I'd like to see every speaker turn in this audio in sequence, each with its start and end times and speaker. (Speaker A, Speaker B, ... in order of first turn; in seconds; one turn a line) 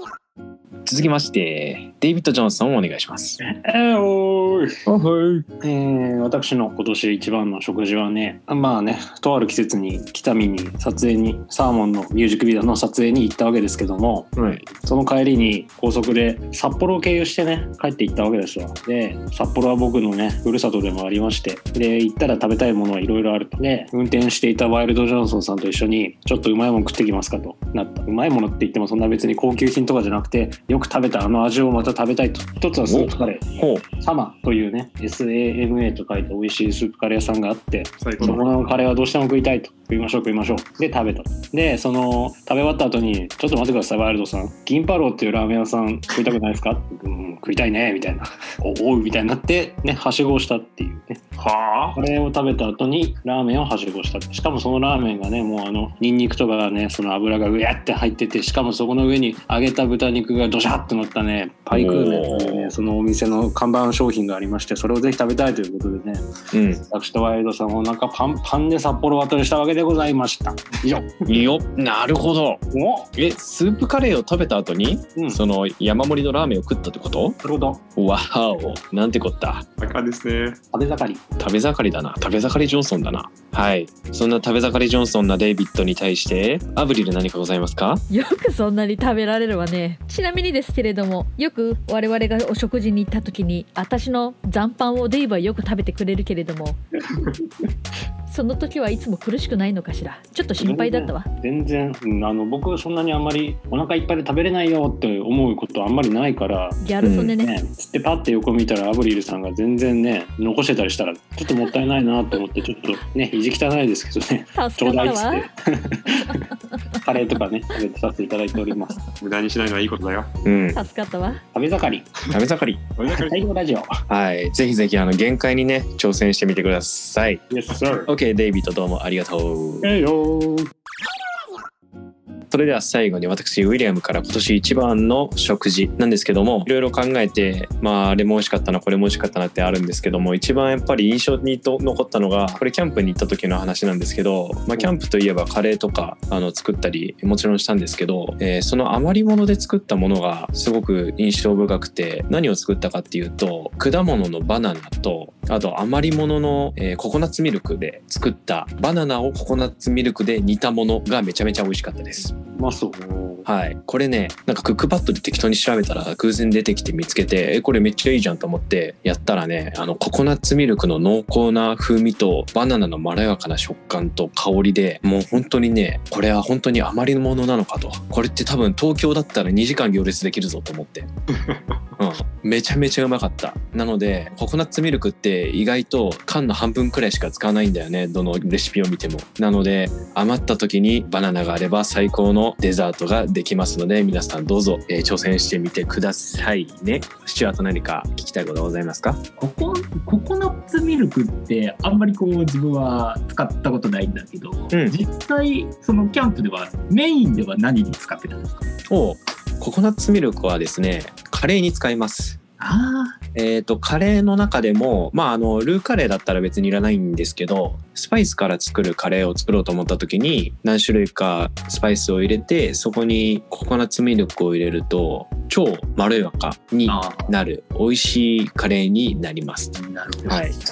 Speaker A: 0.9-3.4
Speaker B: 3.4-4.8
Speaker A: 4.9-5.5
Speaker B: 5.6-14.3
Speaker A: 14.4-14.7
Speaker B: 14.8-66.3
Speaker A: 32.9-33.8
Speaker C: 38.0-38.6
Speaker A: 61.7-62.8
Speaker A: 66.5-66.8
Speaker B: 66.9-71.2
Speaker A: 71.3-72.6
Speaker B: 72.7-73.1
Speaker A: 73.2-77.4
Speaker B: 75.2-75.4
Speaker B: 77.4-77.8
Speaker A: 78.0-79.7
Speaker C: 79.8-80.6
Speaker B: 80.7-81.2
Speaker A: 81.4-88.0
Speaker D: 88.1-96.8
Speaker D: 98.3-101.3
Speaker B: 100.6-106.8
Speaker D: 106.8-107.5
Speaker A: 107.0-107.3
Speaker B: 107.4-116.4
Speaker D: 114.5-115.5
Speaker B: 117.0-119.0
Speaker C: 119.2-120.3
Speaker A: 120.5-120.8
Speaker D: 120.7-121.4
Speaker B: 121.5-122.1
Speaker A: 122.3-122.8
Speaker C: 123.0-123.5
Speaker B: 123.1-123.9
Speaker A: 124.1-127.4
Speaker B: 127.5-128.1
Speaker A: 128.1-129.9
Speaker B: 129.8-130.7
Speaker A: 132.5-162.3
Speaker B: 162.6-163.0
Speaker C: 163.0-163.5
Speaker A: 163.5-181.1
Speaker A: 182.0-199.2
Speaker E: 199.4-208.7
Speaker A: 208.9-212.4
Speaker E: 212.6-213.2
Speaker A: 213.3-229.7
Speaker E: 226.9-227.3
Speaker E: 229.8-230.5
Speaker A: 230.3-230.6